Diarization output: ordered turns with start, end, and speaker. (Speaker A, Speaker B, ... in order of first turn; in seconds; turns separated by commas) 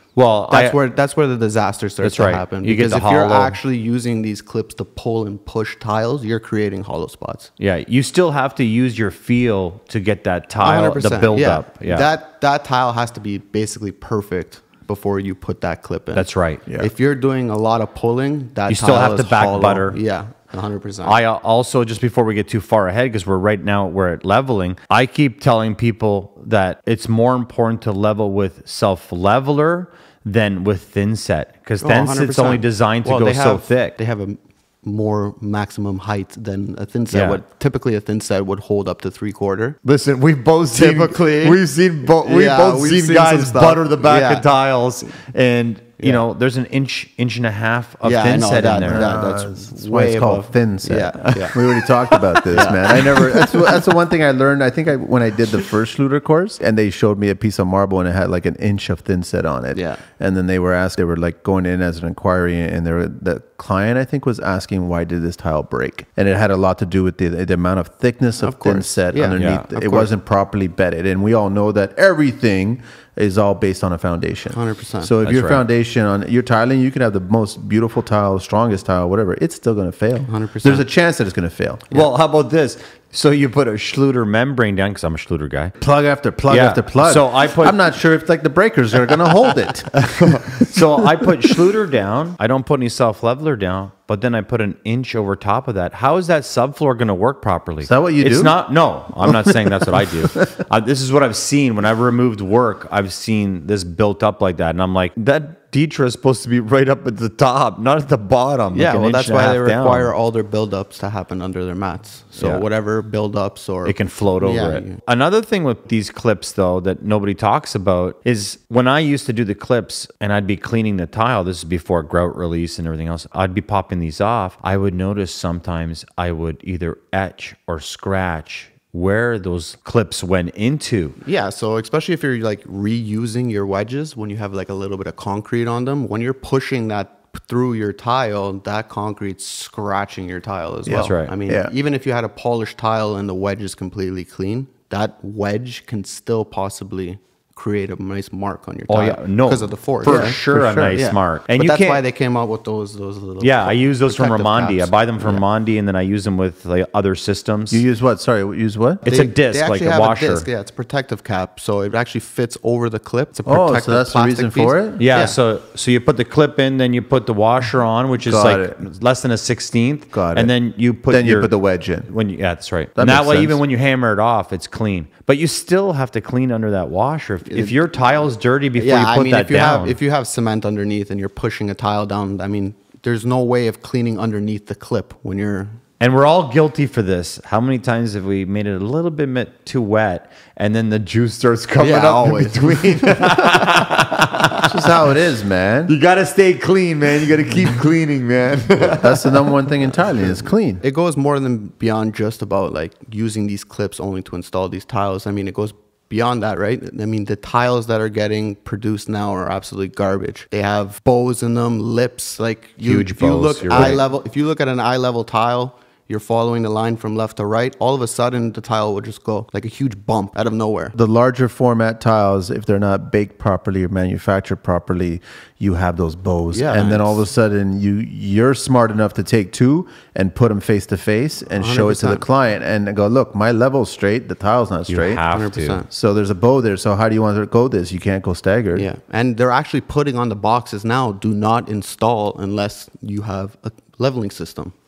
Speaker A: 0.1-0.8, Speaker B: 0.5-7.5, Speaker A: 2.0-3.6, Speaker A: 7.6-12.1, Speaker B: 10.6-21.2, Speaker A: 16.1-16.6, Speaker A: 18.7-20.0, Speaker A: 21.0-33.9, Speaker B: 31.8-39.8, Speaker A: 37.1-37.4, Speaker A: 39.8-49.1, Speaker B: 40.7-44.5, Speaker B: 48.0-51.6, Speaker C: 48.9-81.9, Speaker A: 51.3-53.4, Speaker B: 52.5-53.0, Speaker B: 59.7-60.0, Speaker B: 68.4-70.1, Speaker A: 69.4-69.7, Speaker B: 74.5-75.1, Speaker A: 75.2-75.6, Speaker B: 80.3-80.8, Speaker A: 81.9-85.7, Speaker C: 85.8-91.2, Speaker A: 86.5-87.8, Speaker A: 90.1-110.1, Speaker C: 97.8-98.6, Speaker C: 99.2-100.4, Speaker B: 108.7-115.0, Speaker A: 112.4-112.6, Speaker A: 113.8-131.2, Speaker B: 131.2-150.4, Speaker C: 140.8-141.7, Speaker A: 140.9-141.3, Speaker A: 148.9-152.0, Speaker C: 150.0-151.0, Speaker B: 150.9-155.4, Speaker A: 153.4-157.8, Speaker C: 157.7-159.0, Speaker B: 159.0-165.3, Speaker A: 159.1-160.4, Speaker C: 163.4-165.0, Speaker A: 165.0-171.5, Speaker C: 168.2-168.8, Speaker C: 170.1-170.5, Speaker C: 171.1-172.1, Speaker A: 172.1-180.0, Speaker C: 172.9-173.6, Speaker B: 177.5-177.7, Speaker B: 178.8-185.8, Speaker A: 186.0-194.9, Speaker B: 191.8-193.6, Speaker C: 194.6-195.9, Speaker A: 195.9-199.5, Speaker C: 198.8-200.8, Speaker B: 200.1-220.9, Speaker A: 212.8-214.0, Speaker C: 220.9-235.2, Speaker B: 226.5-227.2, Speaker B: 231.6-232.2, Speaker A: 234.9-235.8, Speaker B: 235.3-235.9, Speaker C: 235.9-238.8, Speaker B: 238.7-244.7